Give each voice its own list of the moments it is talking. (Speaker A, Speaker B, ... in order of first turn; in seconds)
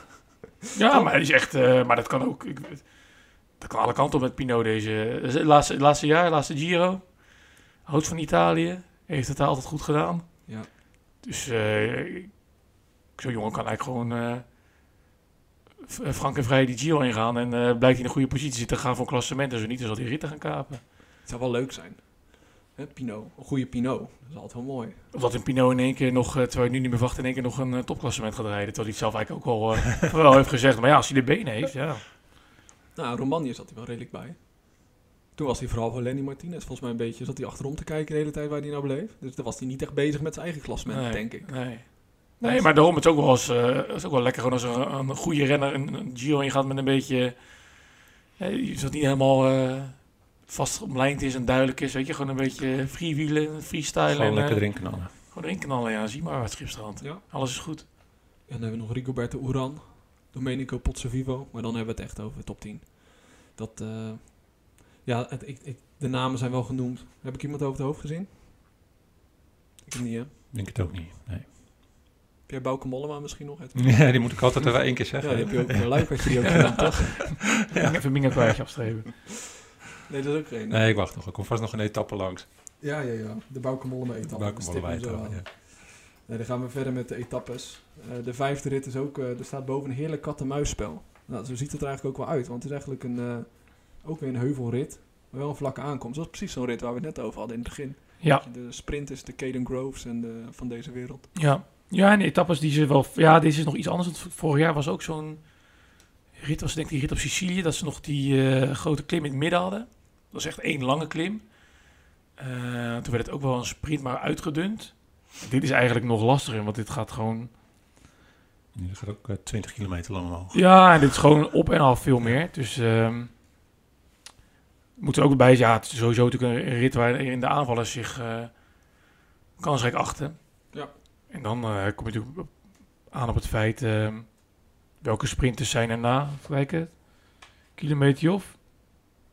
Speaker A: 0.7-10.7, 11.2-12.6, 13.1-14.5, 15.8-20.8, 25.1-32.1, 40.9-57.9, 76.4-79.1, 101.3-117.5, 120.5-123.3, 125.0-128.6, 129.6-138.6
Speaker B: 0.8-1.1, 21.2-25.1, 32.9-42.7, 58.5-68.3, 69.8-70.3, 72.5-77.5, 80.0-80.9, 82.8-101.3
Speaker C: 54.1-55.1, 70.5-71.5, 73.7-78.5, 80.7-82.5, 84.2-85.5, 118.7-121.2